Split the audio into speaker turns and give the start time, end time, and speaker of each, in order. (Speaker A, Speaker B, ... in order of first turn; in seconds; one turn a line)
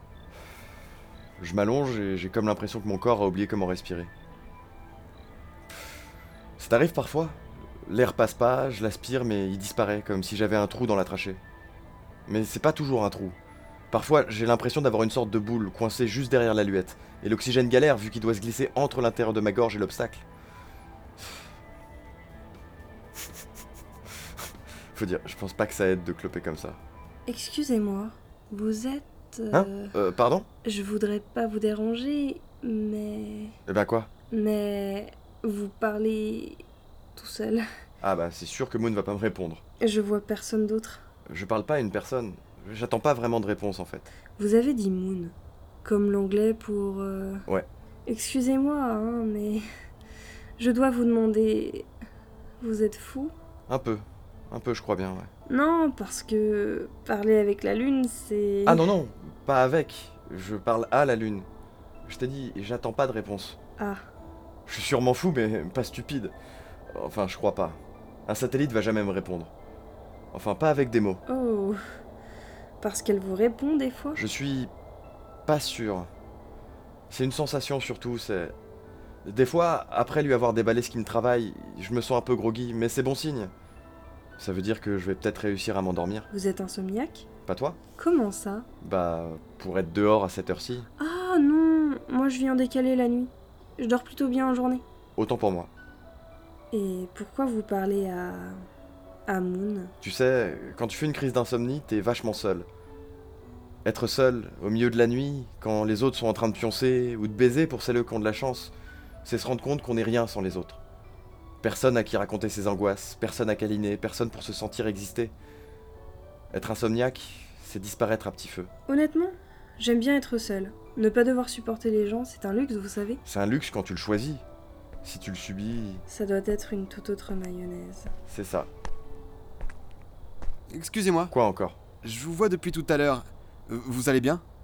Speaker A: 1.4-4.1
Speaker A: 6.6-11.4
Speaker A: 12.3-13.4
Speaker A: 13.9-20.2
Speaker A: 24.9-26.8
Speaker B: 27.3-29.9
Speaker A: 29.5-30.5
Speaker B: 30.6-33.5
Speaker A: 33.7-34.1
Speaker B: 34.3-37.6
Speaker A: 38.0-39.6
Speaker B: 39.8-41.0
Speaker A: 41.3-44.1
Speaker B: 44.4-47.5
Speaker B: 48.1-49.6
Speaker B: 50.6-51.9
Speaker B: 52.6-53.3
Speaker A: 53.7-55.3
Speaker B: 55.5-58.9
Speaker A: 58.7-61.5
Speaker A: 62.1-63.6
Speaker B: 63.8-64.1
Speaker A: 64.7-66.3
Speaker A: 66.9-69.5
Speaker A: 70.3-71.2
Speaker B: 71.3-71.8
Speaker B: 72.8-74.2
Speaker A: 74.2-74.7
Speaker A: 75.5-76.1
Speaker A: 77.1-78.6
Speaker A: 79.2-83.5
Speaker A: 84.4-86.3
Speaker B: 86.3-87.3
Speaker A: 87.5-87.8
Speaker B: 88.0-88.7
Speaker A: 88.8-90.9
Speaker B: 91.0-94.8
Speaker A: 95.2-95.7
Speaker B: 96.7-98.6
Speaker B: 99.3-99.9
Speaker A: 100.0-102.7
Speaker A: 103.8-108.7
Speaker A: 109.2-110.8
Speaker A: 111.6-115.3
Speaker A: 116.5-118.7
Speaker B: 118.9-123.2
Speaker A: 123.2-124.4
Speaker A: 125.0-126.0
Speaker B: 126.1-128.1
Speaker A: 128.3-128.7
Speaker C: 130.7-131.3
Speaker A: 131.3-131.8
Speaker C: 132.0-134.4